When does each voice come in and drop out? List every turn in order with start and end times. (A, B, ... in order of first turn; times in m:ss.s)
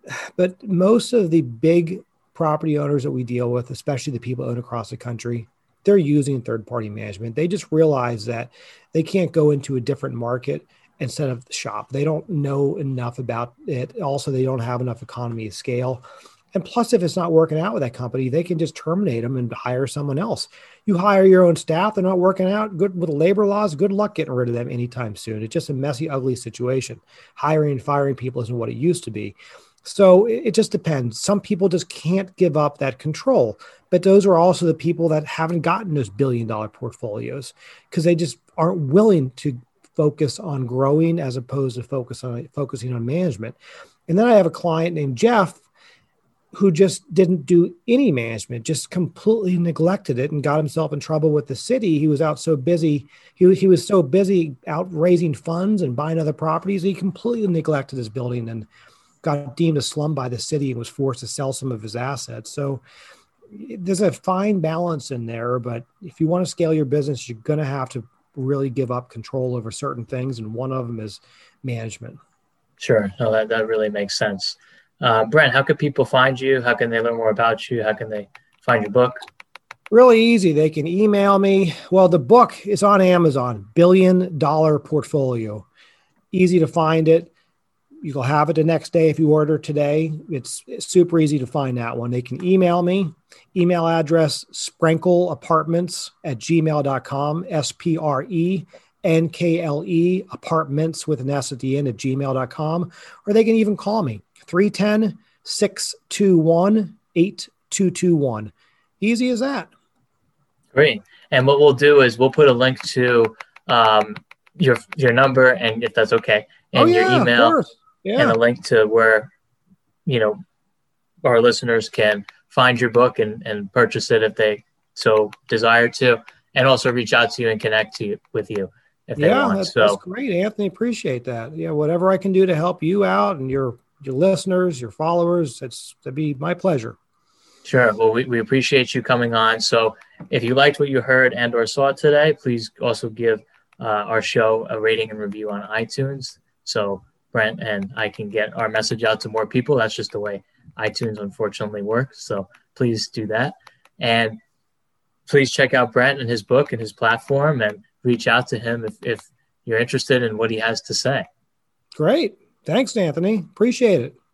0:00.4-0:43.6 A
0:44.1-0:45.6 A
0:46.5-0:58.7 A
0:59.2-1:02.8 A
1:03.5-1:12.2 A
1:12.8-1:19.2 B
1:19.9-1:25.6 A
1:26.3-1:27.3 A
1:28.0-1:49.7 A
1:50.7-1:57.6 B
1:56.7-1:58.4 A
1:58.2-1:59.3 B
2:00.0-2:00.4 B
2:01.2-2:10.0 B
2:09.2-2:17.0 A
2:17.6-2:34.4 B
2:35.3-2:41.3 B
2:42.0-2:44.1 A